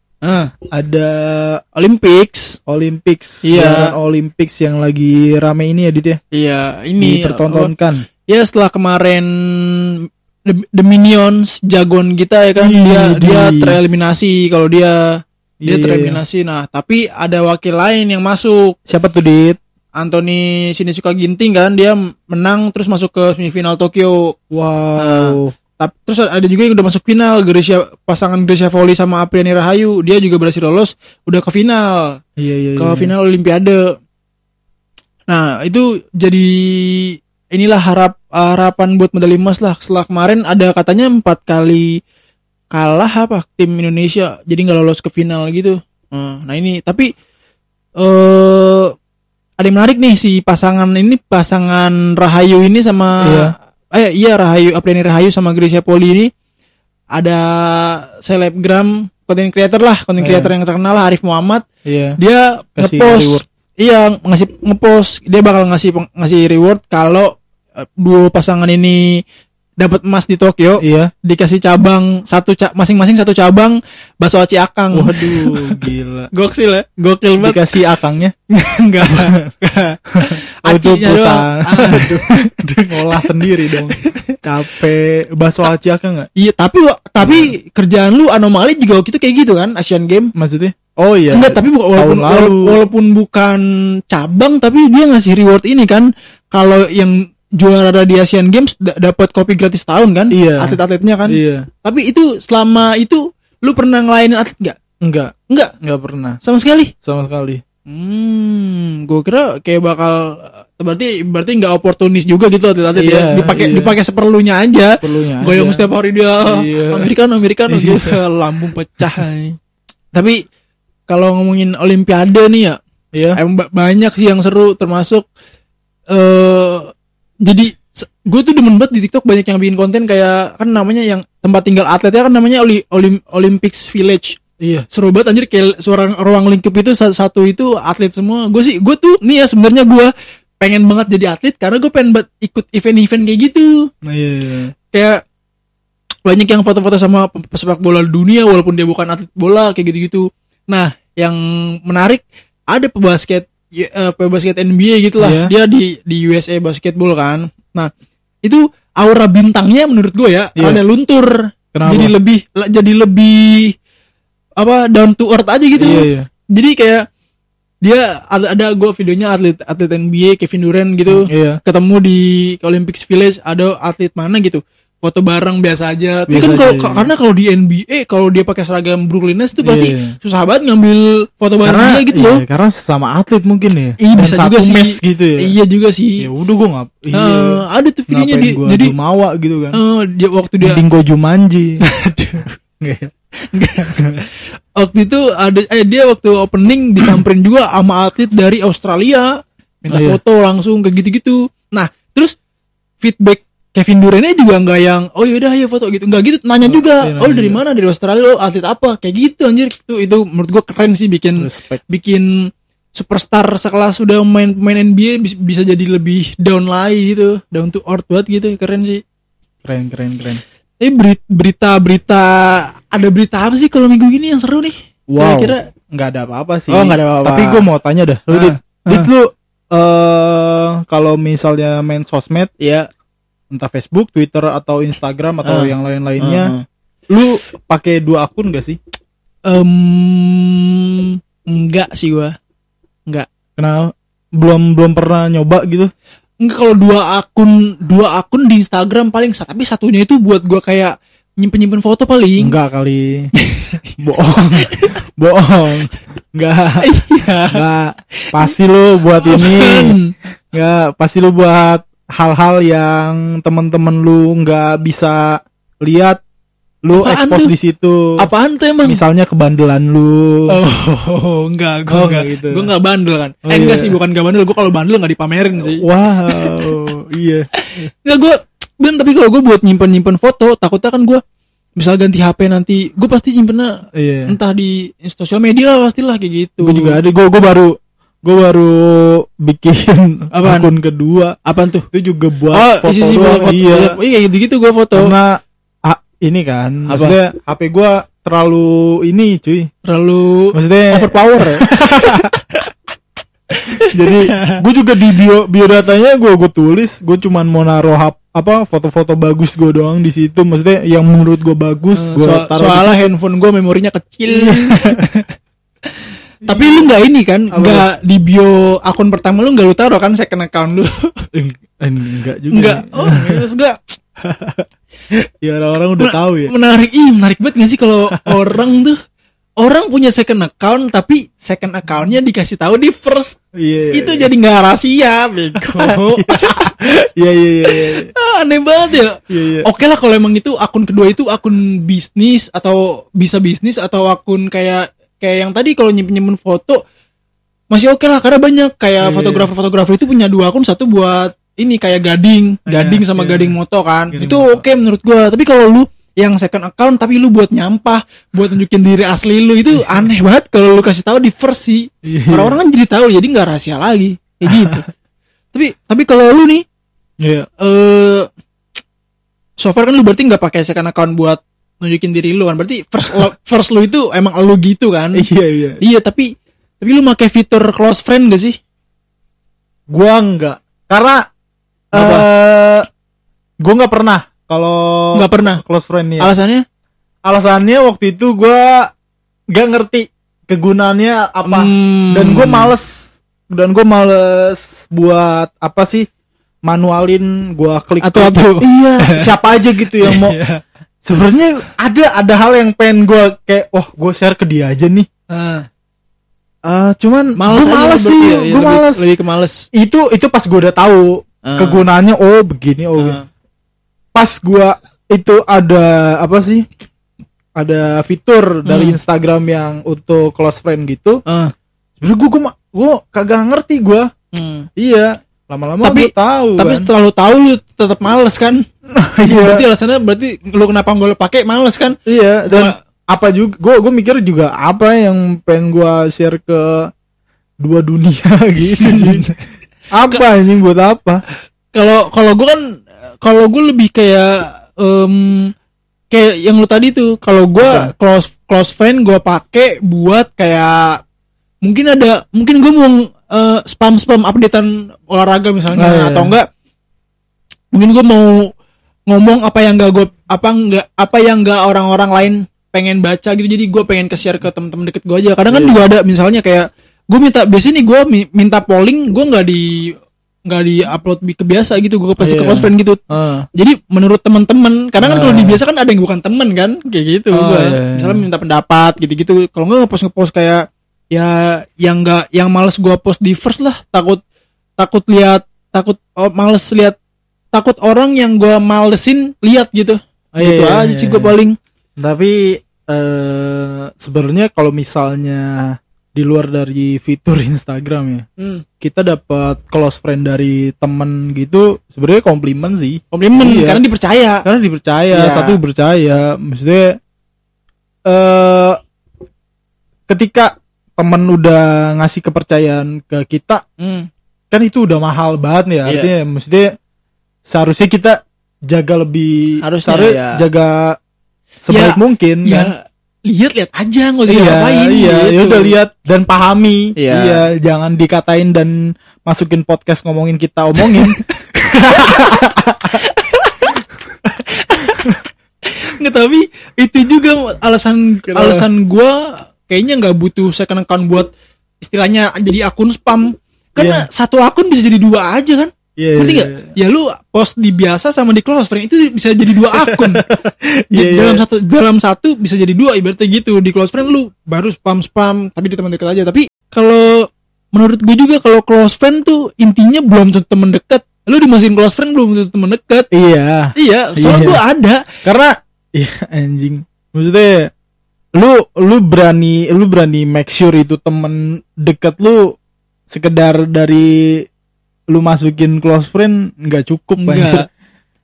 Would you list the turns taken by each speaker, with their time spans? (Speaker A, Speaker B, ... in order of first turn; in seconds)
Speaker A: 0.2-0.5, 1.8-2.6, 3.4-3.9, 6.3-7.7, 8.3-18.8, 20.0-24.3, 25.0-32.2, 32.8-33.9, 35.3-42.0, 42.7-47.1, 48.0-48.9, 49.6-56.3, 57.1-61.6, 62.2-69.2, 69.8-77.7, 78.5-84.4, 86.3-90.3, 91.3-104.8, 106.4-106.9, 107.9-119.5, 120.1-120.4, 121.1-122.8, 123.3-125.2, 126.1-126.9, 127.4-134.4, 134.9-143.9, 144.9-145.2, 146.2-157.9, 158.4-163.7, 164.6-167.0, 167.8-182.4, 184.0-186.2, 187.1-188.9, 189.7-190.8, 191.8-192.5, 193.5-202.3, 203.0-219.0, 220.8-225.7, 226.7-227.6, 228.3-229.1, 232.6-232.9, 235.4-236.6, 239.4-242.3, 246.4-252.5, 253.4-253.8, 254.6-254.9, 256.8-257.6, 258.2-258.5, 259.2-260.1, 266.9-267.5, 268.2-269.0, 270.5-276.7, 277.6-281.2, 281.8-287.0, 290.3-290.7, 291.4-291.9, 292.5-295.1, 296.9-297.1, 299.8-302.3, 303.6-304.6, 311.9-315.3, 316.4-321.1, 322.5-323.8, 326.0-329.0, 329.6-333.4, 333.9-337.0, 337.7-346.8, 347.7-364.9, 365.5-366.6, 367.6-368.3, 369.6-375.2, 375.8-378.6, 381.9-382.2, 385.1-385.6, 386.2-386.6, 391.4-392.7, 398.0-399.3, 400.0-400.6, 405.3-405.6, 407.4-409.6, 411.4-411.8, 413.0-413.2, 418.6-419.0, 421.2-421.5, 424.3-424.7, 425.8-428.6, 429.2-432.0, 432.5-432.8, 438.8-439.4, 441.7-442.6, 443.2-445.5, 446.1-451.0, 451.6-456.5, 457.7-458.5, 459.1-469.9, 470.5-473.0, 473.5-484.2, 484.8-487.0, 487.5-491.6, 498.4-498.6, 503.1-504.4, 505.1-505.6, 513.8-514.1, 515.8-516.1, 519.6-520.4, 521.7-525.8, 527.0-527.5, 530.8-531.2, 531.8-532.4, 532.9-533.7, 534.5-541.3, 541.8-550.2, 550.9-563.1, 563.8-565.0, 577.2-577.6
Speaker B: 0.7-1.6, 2.7-6.2, 7.0-8.0, 12.6-13.8, 15.6-16.2, 18.9-19.6, 24.5-25.6, 32.4-33.1, 53.2-53.5, 60.2-60.5, 61.8-62.2, 62.8-63.4, 70.8-71.1, 74.9-76.3, 77.4-78.3, 79.0-79.4, 80.2-86.3, 87.2-87.5, 90.3-92.7, 100.3-101.7, 105.0-106.4, 107.0-107.6, 113.0-113.9, 115.0-115.9, 116.5-117.1, 117.7-118.2, 134.6-134.8, 144.0-144.7, 155.2-155.5, 161.7-162.1, 165.8-166.3, 171.1-171.6, 176.3-177.1, 179.6-180.1, 181.6-185.5, 186.2-189.8, 190.6-191.8, 192.8-193.1, 193.8-194.2, 199.9-200.2, 206.6-207.6, 211.4-211.8, 219.6-220.4, 225.1-232.5, 233.5-236.5, 237.1-238.8, 243.6-245.9, 252.4-253.3, 254.0-260.0, 260.5-266.2, 266.8-268.2, 268.8-270.6, 271.9-272.7, 273.5-273.9, 275.6-277.5, 283.9-284.3, 286.6-291.4, 291.9-293.9, 294.9-299.7, 300.5-302.3, 303.8-313.1, 314.3-315.0, 316.4-316.9, 317.5-317.9, 321.3-323.4, 324.2-326.5, 328.2-328.4, 333.5-334.3, 335.7-338.1, 339.3-339.7, 349.0-349.5, 352.7-353.6, 354.1-354.6, 362.0-362.6, 364.5-364.8, 367.2-367.5, 375.1-375.8, 379.9-381.2, 381.9-382.9, 383.6-386.3, 387.2-388.9, 389.5-396.1, 396.6-400.4, 401.0-405.1, 406.6-409.0, 409.7-413.2, 414.1-416.7, 417.6-421.2, 422.0-424.1, 424.8-426.9, 428.9-429.6, 432.1-436.9, 437.6-439.2, 439.9-441.2, 447.6-447.9, 455.8-456.3, 465.5-465.8, 472.2-473.4, 475.0-475.6, 477.3-478.2, 490.4-491.4, 492.0-498.2, 498.8-503.8, 504.4-507.0, 508.1-508.8, 510.1-513.6, 514.5-516.7, 517.5-521.0, 521.6-522.7, 524.3-533.0, 538.3-538.7, 543.8-544.0, 546.0-546.7, 549.7-551.4, 563.1-564.6, 565.2-567.7, 568.3-572.5, 573.1-574.5, 575.1-577.6